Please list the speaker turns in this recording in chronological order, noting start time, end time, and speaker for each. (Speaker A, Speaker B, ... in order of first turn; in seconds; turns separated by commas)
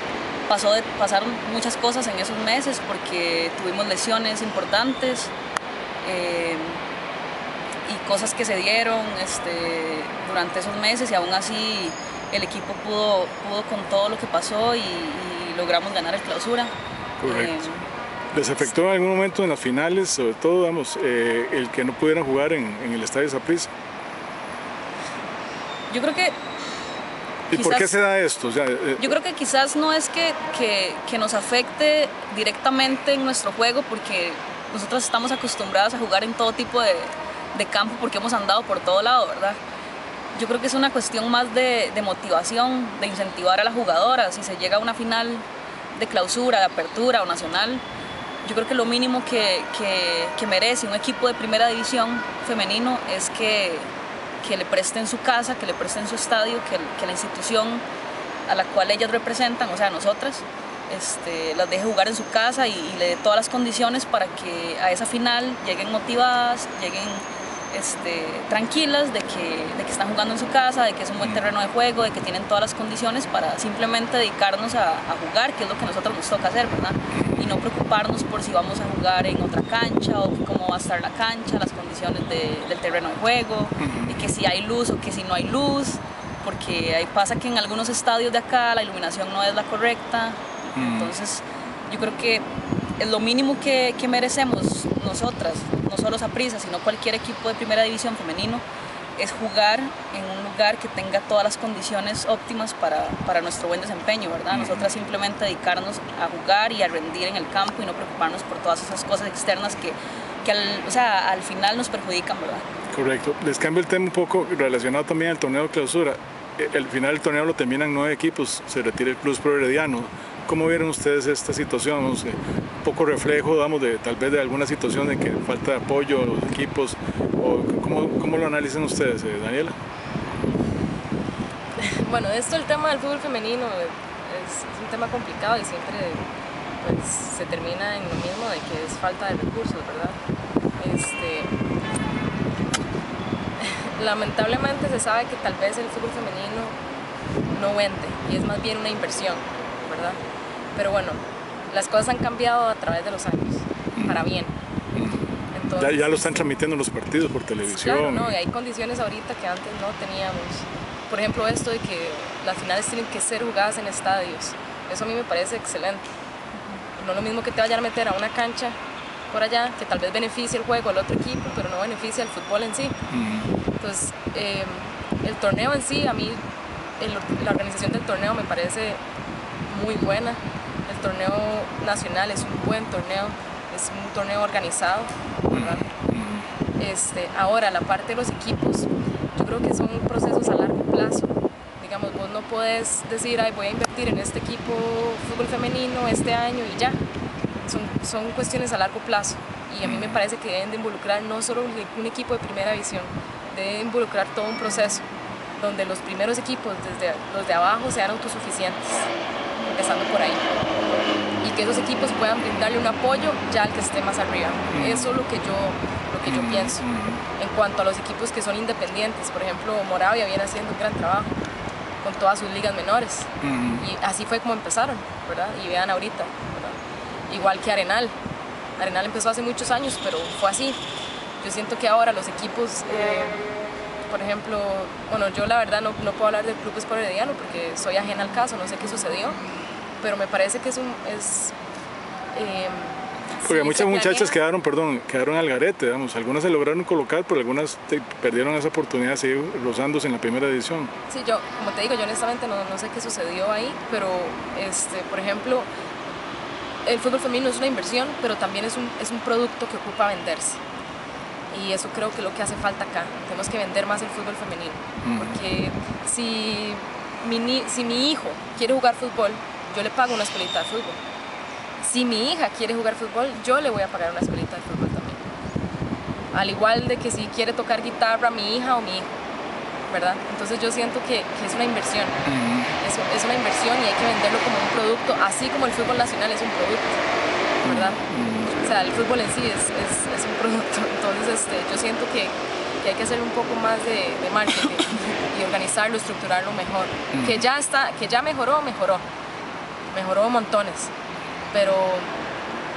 Speaker A: 0.5-5.3, Speaker A: 6.0-6.8, Speaker A: 7.8-16.7, Speaker B: 17.2-17.6, Speaker A: 17.2-17.8, Speaker B: 18.3-23.7, Speaker A: 25.9-26.4, Speaker B: 27.5-29.1, Speaker A: 27.5-27.9, Speaker A: 29.0-39.6, Speaker A: 40.3-47.8, Speaker A: 48.4-53.9, Speaker A: 54.4-57.8, Speaker A: 58.5-92.4, Speaker B: 71.2-71.5, Speaker B: 83.8-84.1, Speaker B: 90.7-91.1, Speaker A: 93.0-98.6, Speaker A: 99.2-112.6, Speaker B: 104.5-104.9, Speaker B: 112.9-129.8, Speaker C: 131.8-136.2, Speaker C: 136.8-140.2, Speaker C: 140.8-141.5, Speaker C: 143.6-146.8, Speaker C: 147.5-150.2, Speaker C: 150.7-154.5, Speaker B: 153.9-154.2, Speaker B: 154.9-155.2, Speaker C: 155.5-156.4, Speaker B: 155.8-158.3, Speaker C: 157.6-166.0, Speaker C: 166.9-168.8, Speaker C: 169.3-172.9, Speaker B: 173.1-173.5, Speaker C: 173.8-176.4, Speaker C: 177.0-179.0, Speaker C: 179.7-185.9, Speaker B: 185.5-186.4, Speaker C: 186.8-197.0, Speaker C: 197.6-205.0, Speaker B: 199.8-200.2, Speaker C: 205.6-209.1, Speaker C: 209.6-210.4, Speaker C: 211.4-216.8, Speaker B: 214.7-215.1, Speaker B: 216.2-217.2, Speaker C: 217.4-221.4, Speaker C: 222.0-226.8, Speaker B: 223.4-223.8, Speaker C: 227.3-228.1, Speaker C: 228.8-230.8, Speaker C: 231.4-233.5, Speaker C: 234.1-239.4, Speaker C: 240.0-241.5, Speaker C: 242.3-244.3, Speaker B: 243.4-250.9, Speaker C: 251.1-255.7, Speaker C: 256.8-260.6, Speaker C: 261.5-271.0, Speaker B: 265.0-265.4, Speaker C: 271.8-275.3, Speaker C: 276.3-279.1, Speaker C: 279.9-282.2, Speaker B: 282.2-282.7, Speaker C: 282.8-287.1, Speaker B: 287.6-288.6, Speaker C: 287.6-288.0, Speaker C: 288.6-299.0, Speaker B: 297.1-297.4, Speaker C: 299.9-300.9, Speaker C: 301.5-302.1